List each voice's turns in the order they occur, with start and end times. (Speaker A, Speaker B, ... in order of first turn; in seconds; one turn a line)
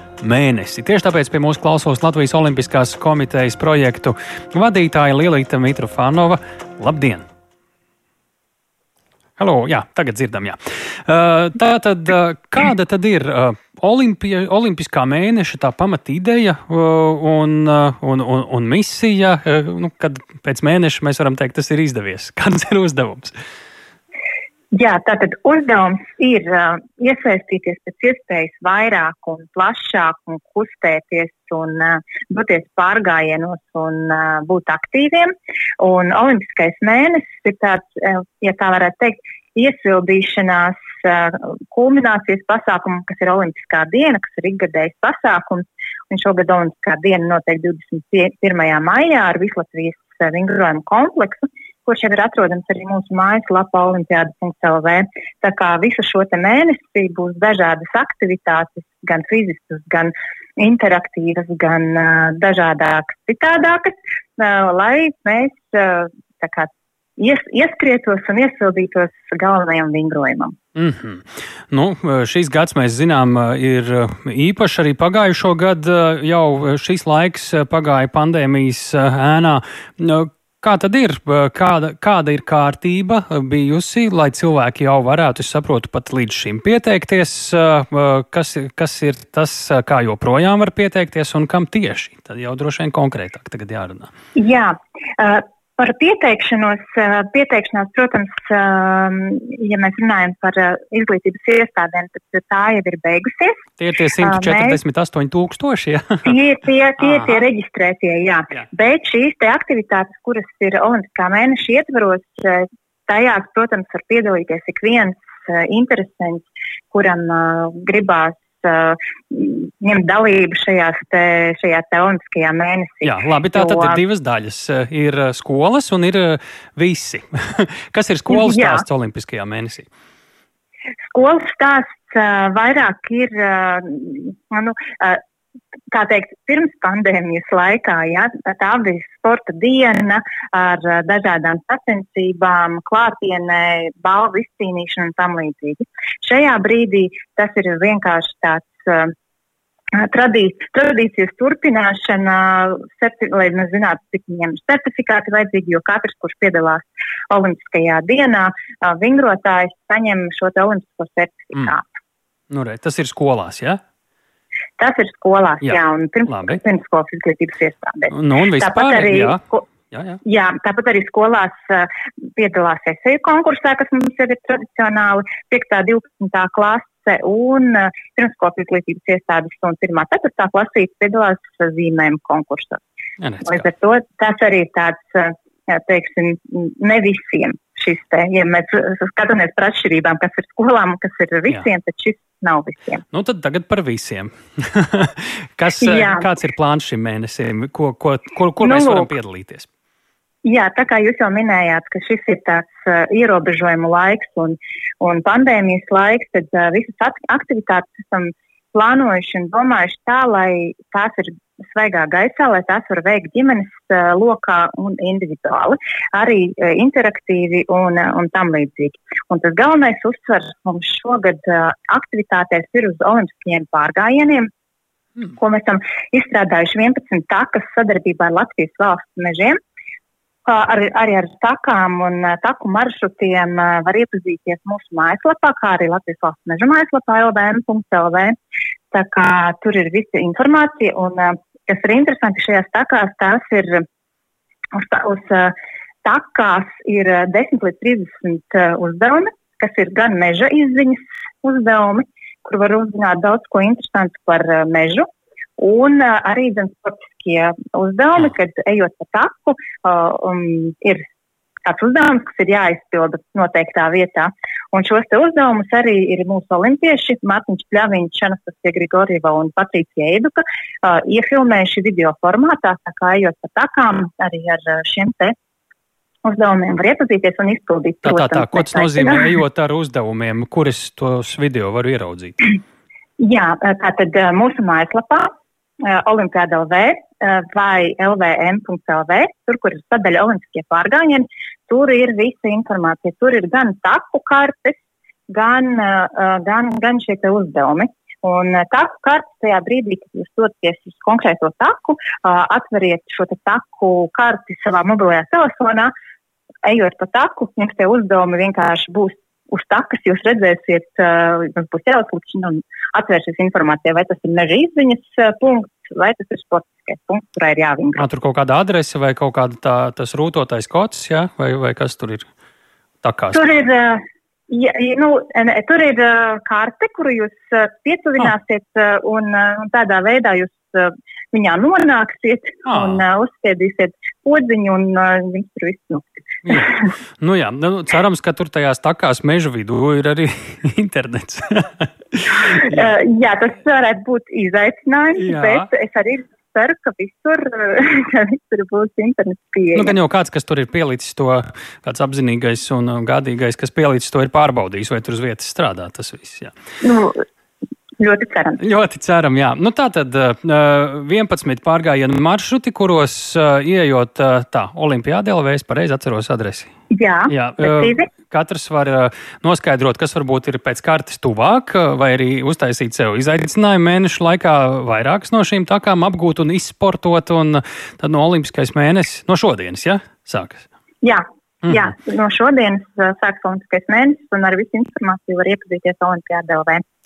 Speaker A: 0.2-7.3
Speaker A: 9.4-23.3
Speaker B: 24.7-70.5
Speaker A: 70.7-94.1
Speaker B: 94.3-103.6
Speaker A: 103.8-106.3
Speaker B: 104.2-104.8
Speaker B: 106.2-124.0
Speaker A: 107.0-107.3
Speaker A: 123.0-129.9
Speaker B: 128.3-128.8
Speaker B: 131.1-135.2
Speaker B: 135.9-149.1
Speaker B: 149.9-161.8
Speaker A: 162.5-163.8
Speaker B: 164.8-169.6
Speaker A: 165.6-166.6
Speaker A: 168.1-170.2
Speaker B: 170.2-182.8
Speaker A: 183.2-183.6
Speaker B: 183.4-193.0
Speaker A: 193.1-199.7
Speaker B: 195.8-196.3
Speaker B: 198.6-199.1
Speaker B: 200.4-224.5
Speaker B: 225.3-229.6
Speaker B: 230.4-238.3
Speaker B: 238.9-243.8
Speaker B: 244.7-255.1
Speaker B: 255.6-261.0
Speaker B: 261.6-275.3
Speaker B: 276.2-279.3
Speaker A: 278.0-282.5
Speaker B: 283.2-285.3
Speaker B: 285.8-305.9
Speaker B: 306.6-318.0
Speaker A: 317.9-322.3
Speaker A: 323.0-323.4
Speaker B: 323.3-336.7
Speaker A: 332.6-333.0
Speaker A: 336.4-342.8
Speaker B: 342.4-349.9
Speaker A: 345.2-345.7
Speaker A: 349.7-356.5
Speaker B: 356.8-357.2
Speaker B: 358.0-358.6
Speaker A: 358.6-366.7
Speaker B: 366.9-368.1
Speaker A: 367.3-380.6
Speaker B: 381.0-386.8